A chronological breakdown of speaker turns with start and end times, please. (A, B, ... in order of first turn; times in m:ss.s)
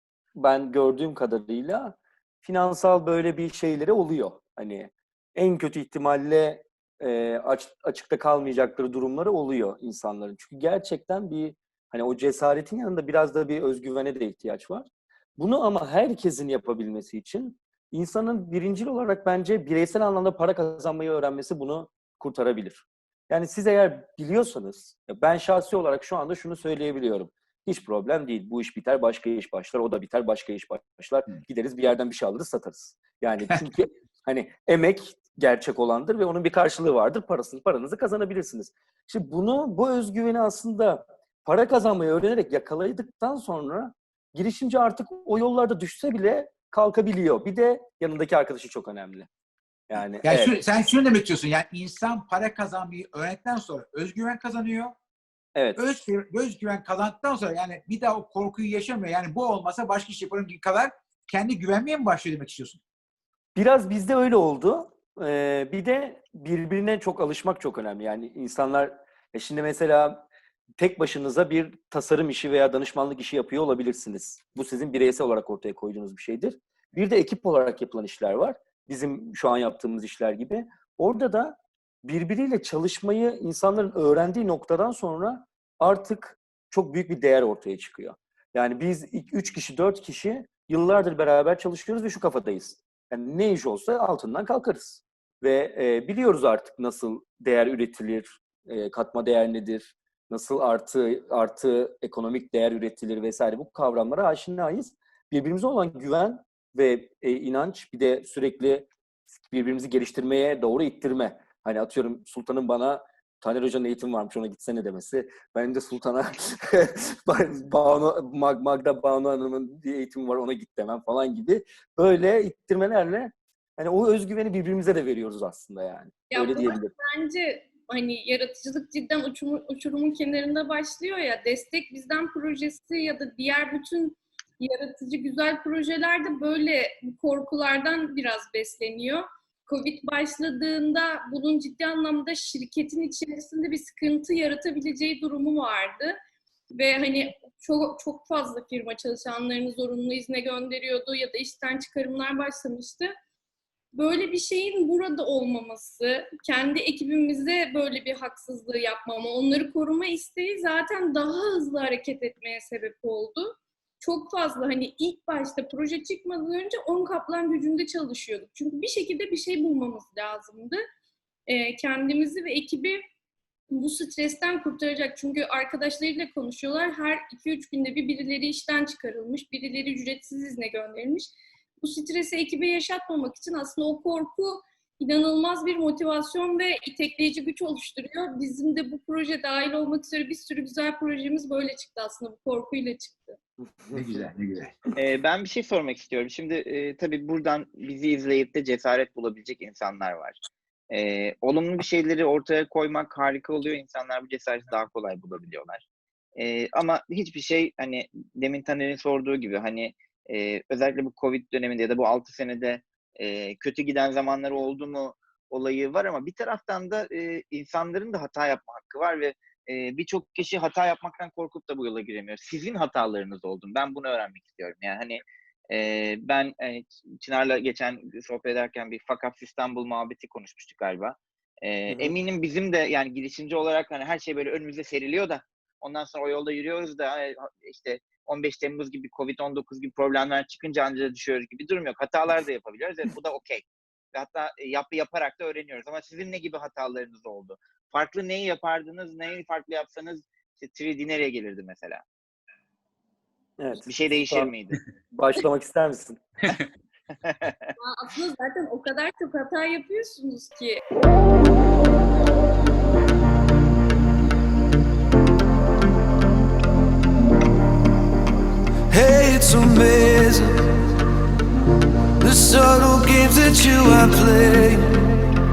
0:00.4-0:49.3 A
0:49.9-0:50.6 A
0:50.2-0:54.9 B
0:55.8-1:02.8 B
1:03.5-1:10.2 A
1:10.8-1:48.9 A
1:49.4-2:06.9 A
2:06.3-2:26.2 C
2:26.7-2:33.1 C
2:33.9-2:50.8 C
2:51.5-2:53.0 C
2:53.7-3:13.4 C
3:13.9-3:14.2 A
3:13.9-3:14.8 B
3:15.0-3:25.8 D
3:26.4-4:12.0 D
3:51.9-3:52.1 A
4:13.6-4:14.5 A
4:13.8-4:14.8 D
4:15.1-4:16.2 A
4:17.2-4:17.7 D
4:17.8-4:20.8 C
4:28.9-4:30.7 E
4:32.2-4:35.1 E